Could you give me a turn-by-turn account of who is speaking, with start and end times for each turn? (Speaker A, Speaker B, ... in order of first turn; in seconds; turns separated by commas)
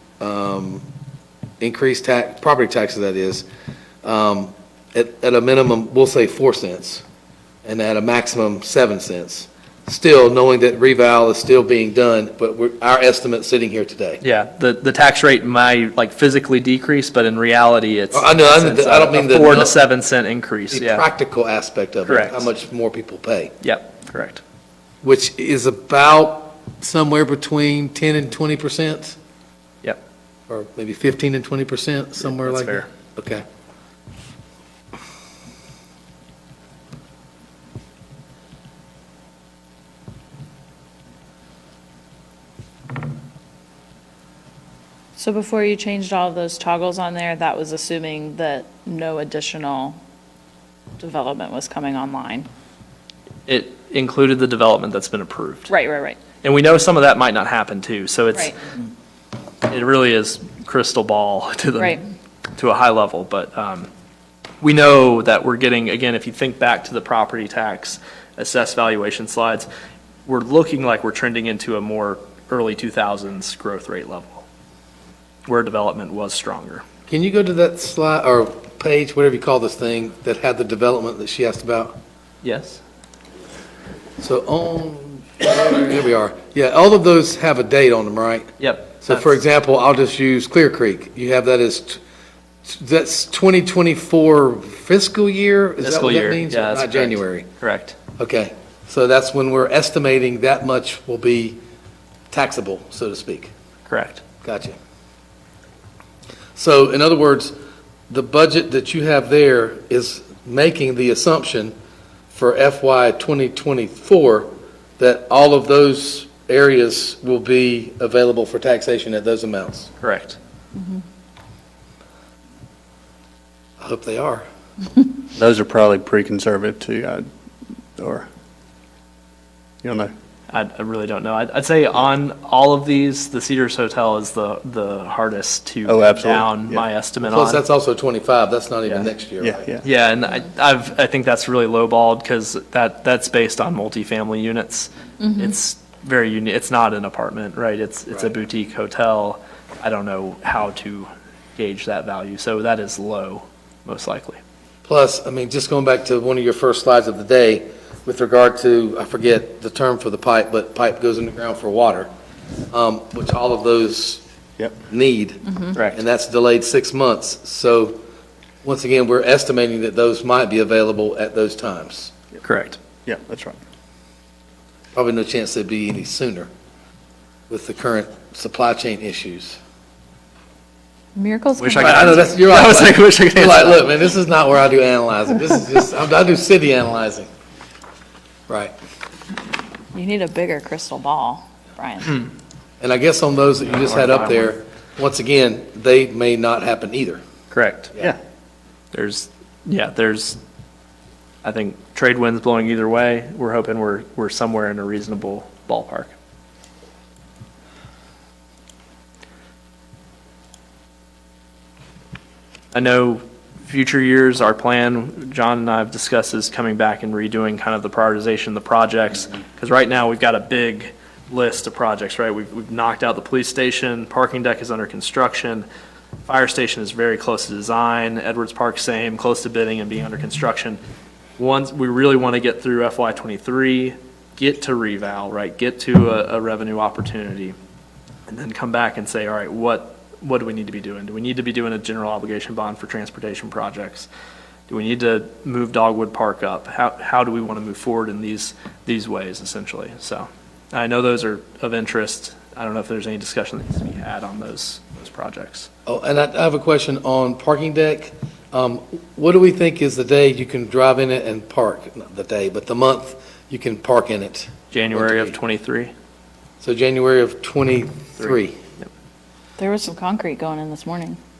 Speaker A: 0.2-0.9, Speaker A: 1.6-3.5, Speaker A: 4.0-7.0, Speaker A: 7.6-14.2, Speaker B: 14.2-21.1, Speaker A: 18.1-19.8, Speaker A: 20.7-23.5, Speaker B: 22.1-22.5, Speaker B: 23.6-24.4, Speaker A: 25.0-29.2, Speaker A: 30.5-33.4, Speaker B: 32.4-32.9, Speaker C: 45.2-50.0, Speaker C: 51.0-52.5, Speaker B: 53.5-55.7, Speaker C: 55.7-56.2, Speaker B: 56.4-58.6, Speaker B: 59.7-62.0, Speaker B: 62.6-63.9, Speaker B: 64.6-69.7, Speaker B: 70.3-74.5, Speaker B: 75.5-76.8, Speaker A: 77.1-82.0, Speaker B: 82.4-82.8, Speaker A: 84.2-88.5, Speaker B: 88.6-89.4, Speaker A: 89.0-92.0, Speaker A: 92.7-97.5, Speaker B: 95.8-98.0, Speaker A: 98.2-101.6, Speaker A: 102.3-103.5, Speaker B: 103.9-104.2, Speaker A: 104.4-104.8, Speaker A: 106.6-107.5, Speaker A: 108.1-111.7, Speaker A: 112.3-119.9, Speaker B: 120.0-120.4, Speaker A: 123.8-124.5, Speaker D: 125.3-127.3, Speaker D: 128.0-128.3, Speaker D: 129.8-130.1, Speaker B: 130.5-137.6, Speaker D: 135.8-136.9, Speaker A: 137.2-139.7, Speaker B: 138.8-139.1, Speaker D: 139.4-139.8, Speaker B: 139.8-154.4, Speaker C: 145.2-145.5, Speaker A: 154.8-162.1, Speaker A: 162.7-164.2, Speaker A: 164.9-168.0, Speaker B: 165.8-166.0, Speaker A: 168.6-172.1, Speaker B: 172.4-172.8, Speaker D: 173.1-173.6, Speaker A: 174.9-176.5, Speaker A: 177.5-179.6, Speaker C: 181.2-182.3, Speaker B: 181.6-183.9, Speaker A: 181.8-187.3, Speaker A: 188.5-188.7, Speaker C: 189.9-192.2, Speaker A: 192.8-197.2, Speaker B: 197.5-197.9, Speaker B: 198.9-200.4, Speaker B: 201.4-206.1, Speaker B: 212.7-225.7, Speaker B: 226.3-230.8, Speaker B: 231.4-237.6, Speaker B: 238.3-244.1, Speaker B: 244.7-255.7, Speaker A: 255.9-265.4, Speaker B: 264.7-265.9, Speaker A: 266.6-268.6, Speaker C: 269.6-271.2